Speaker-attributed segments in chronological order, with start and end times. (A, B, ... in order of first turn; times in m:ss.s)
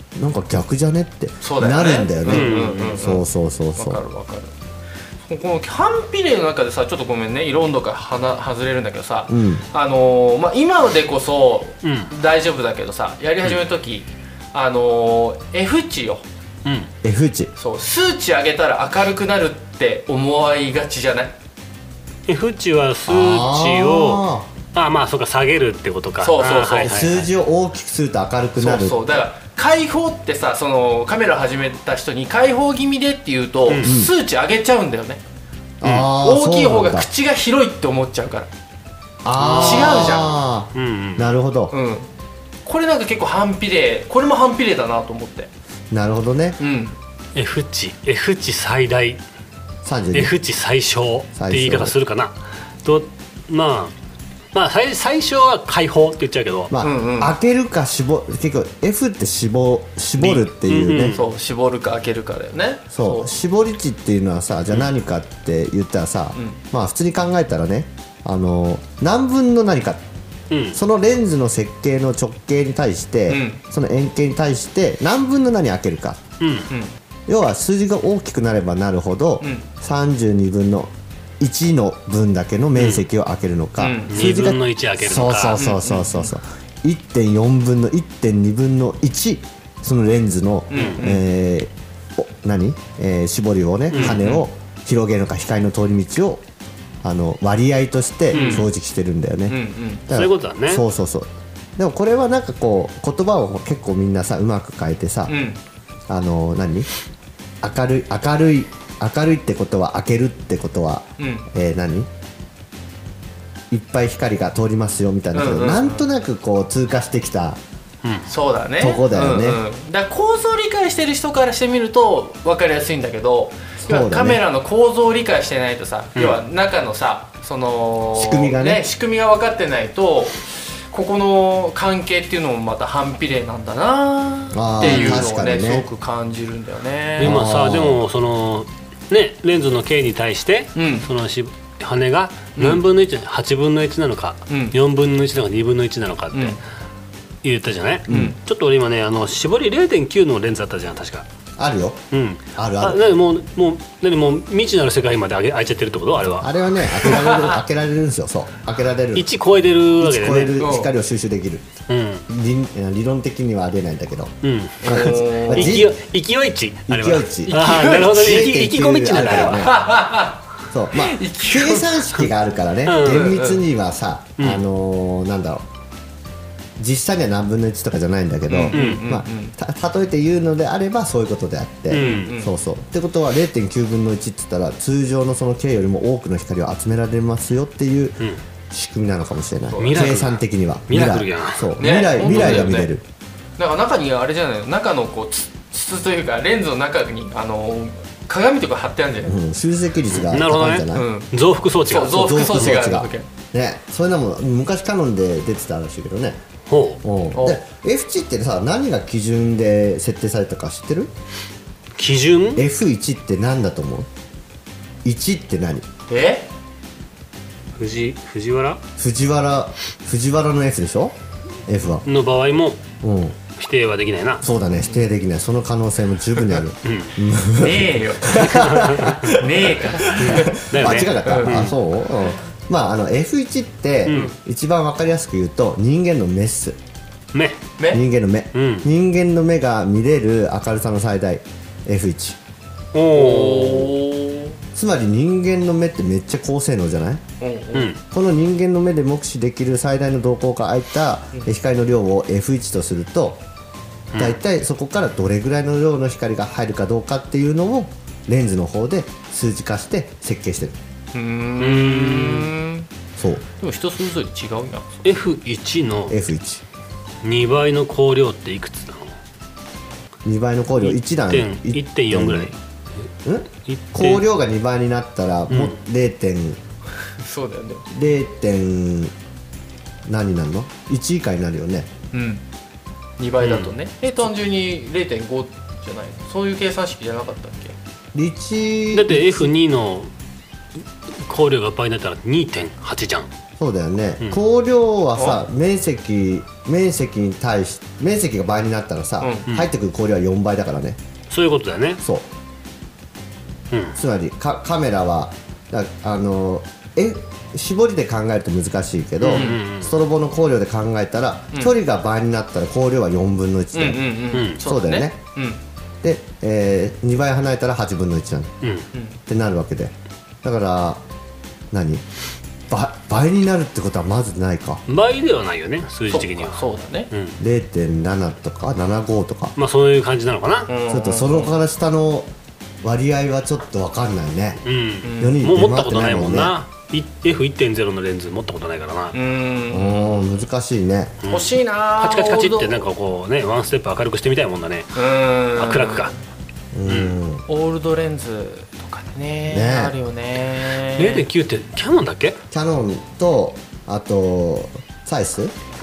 0:00.2-0:04.0 A
0:01.4-0:03.2 B
0:02.2-0:03.1 C
0:03.8-0:04.5 B
0:05.2-0:16.2 B
0:09.3-0:09.6 A
0:11.8-0:12.1 C
0:16.6-0:16.9 C
0:17.0-0:17.5 A
0:17.6-0:21.4 B
0:22.3-0:27.3 C
0:23.1-0:24.5 A
0:26.2-0:27.0 B
0:26.8-0:29.1 A
0:28.6-0:35.2 B
0:33.7-0:34.0 C
0:33.8-0:34.1 A
0:35.8-0:37.1 A
0:35.8-0:36.1 C
0:36.2-0:38.5 B
0:39.2-0:41.7 A
0:39.4-0:41.4 C
0:39.4-0:40.4 B
0:41.7-0:42.1 B
0:42.6-0:45.5 B
0:45.9-0:46.6 A
0:46.6-0:47.0 B
0:47.4-0:49.2 C
0:49.8-0:50.4 A
0:50.1-0:53.9 C
0:51.4-0:52.0 A
0:54.5-0:56.7 C
0:56.7-1:01.2 A
0:56.8-0:57.3 B
1:00.2-1:01.2 C
1:01.1-1:03.3 B
1:02.9-1:10.0 A
1:06.4-1:06.6 B
1:10.5-1:10.8 C
1:10.7-1:16.2 A
1:13.3-1:13.6 B
1:16.4-1:16.7 C
1:16.7-1:16.9 B
1:17.3-1:36.4 A
1:19.4-1:19.7 B
1:22.8-1:23.0 C
1:23.8-1:24.2 B
1:24.1-1:25.6 C
1:25.6-1:26.3 B
1:30.7-1:31.2 B
1:30.7-1:31.0 C
1:33.9-1:34.5 B
1:33.9-1:34.2 C
1:37.0-1:45.4 A
1:38.3-1:38.7 B
1:38.3-1:38.6 C
1:39.5-1:40.0 B
1:40.1-1:40.8 C
1:45.3-1:45.6 B
1:46.1-1:46.9 A
1:47.6-1:52.1 A
1:51.2-1:51.5 B
1:53.7-1:57.6 A
1:55.3-1:56.1 B
1:58.3-2:17.4 B
1:58.8-1:59.6 A
2:03.8-2:04.4 A
2:08.2-2:08.8 A
2:14.5-2:15.9 A
2:14.8-2:15.3 C
2:17.2-2:26.6 C
2:17.2-2:18.0 A
2:20.8-2:21.1 B
2:22.6-2:22.8 B
2:24.5-2:24.8 B
2:26.3-2:26.6 B
2:27.4-2:31.3 C
2:28.1-2:28.4 A
2:28.1-2:28.4 B
2:31.6-2:32.0 A
2:32.1-2:37.2 C
2:32.6-2:33.0 A
2:36.4-2:39.3 A
2:37.1-2:37.5 B
2:39.2-2:40.6 C
2:40.0-2:41.7 A
2:40.6-2:40.9 B
2:41.9-2:42.2 C
2:42.3-2:46.0 A
2:44.4-2:49.7 C
2:44.8-2:45.8 B
2:46.9-2:49.8 A
2:47.5-2:48.3 B
2:49.5-2:52.2 B
2:50.7-2:55.6 A
2:52.9-2:53.4 C
2:53.0-2:53.6 B
2:56.8-3:08.2 A
2:58.5-2:59.6 B
2:58.7-2:59.0 C
3:01.9-3:02.4 C
3:01.9-3:02.5 B
3:08.7-3:13.0 A
3:09.7-3:10.2 B
3:09.8-3:11.8 C
3:11.8-3:12.9 B
3:12.3-3:12.7 C
3:13.6-3:19.4 B
3:19.3-3:21.1 A
3:20.1-3:22.8 C
3:20.9-3:21.3 B
3:21.8-3:23.3 B
3:22.1-3:26.4 A
3:26.7-3:27.0 C
3:27.0-3:31.1 A
3:27.3-3:27.6 B
3:32.0-3:32.6 C
3:32.6-3:34.1 A
3:35.0-3:35.9 A
3:36.1-3:36.5 B
3:37.8-3:38.8 C
3:39.0-3:41.2 A
3:41.7-3:42.1 A
3:42.1-3:42.8 C
3:43.0-3:43.4 A
3:43.6-3:44.4 C
3:44.4-3:56.8 A
3:46.8-3:47.2 C
3:47.6-3:51.6 B
3:48.4-3:49.4 C
3:50.2-3:51.8 C
3:54.1-3:54.3 C
3:54.1-3:54.4 B
3:57.3-3:57.6 C
3:57.8-3:58.0 B
3:57.9-4:02.4 A
3:58.5-3:58.9 C
4:02.9-4:03.9 C
4:03.1-4:04.6 B
4:04.8-4:07.2 A
4:07.4-4:07.9 B
4:07.7-4:08.0 C
4:08.1-4:13.4 A
4:14.1-4:14.4 C
4:14.2-4:20.8 A
4:21.1-4:22.9 B
4:21.6-4:22.5 C
4:23.2-4:23.4 A
4:23.6-4:25.0 B
4:25.0-4:26.2 C
4:26.1-4:26.6 A
4:27.2-4:29.1 C
4:30.2-4:32.5 A
4:30.8-4:32.6 C
4:33.2-4:36.6 A
4:33.7-4:34.2 C
4:35.5-4:35.8 C
4:37.2-4:37.9 B
4:37.9-4:39.1 A
4:40.0-4:41.9 A
4:42.1-4:42.4 B
4:43.2-4:47.8 B
4:43.4-4:43.7 C
4:48.1-4:49.4 A
4:48.9-4:50.1 C
4:51.2-4:53.3 C
4:53.6-5:01.0 A
4:59.2-4:59.5 B
5:01.3-5:02.0 C
5:02.0-5:02.3 A
5:03.7-5:04.0 C
5:04.0-5:14.0 A
5:09.2-5:09.6 B
5:09.2-5:10.0 C
5:13.7-5:15.6 B
5:14.3-5:14.6 C
5:14.6-5:15.2 A
5:16.0-5:18.5 A
5:18.6-5:18.9 C
5:18.9-5:19.2 B
5:19.3-5:21.0 A
5:21.7-5:22.0 A
5:22.7-5:24.8 A
5:24.9-5:27.4 C
5:26.1-5:27.1 B
5:27.4-5:29.6 A
5:29.6-5:30.7 C
5:30.7-5:31.6 B
5:30.9-5:32.3 A
5:32.8-5:34.6 A
5:34.6-5:39.2 C
5:35.0-5:35.4 B
5:35.2-5:36.5 A
5:39.1-5:40.3 B
5:39.7-5:41.2 A
5:41.2-5:45.0 C
5:41.3-5:42.8 B
5:44.9-5:46.2 B
5:45.6-5:46.1 C
5:46.7-5:47.4 A
5:46.9-5:47.2 C
5:47.5-5:51.3 B
5:49.5-5:50.0 A
5:51.0-5:52.4 C
5:52.5-5:55.5 A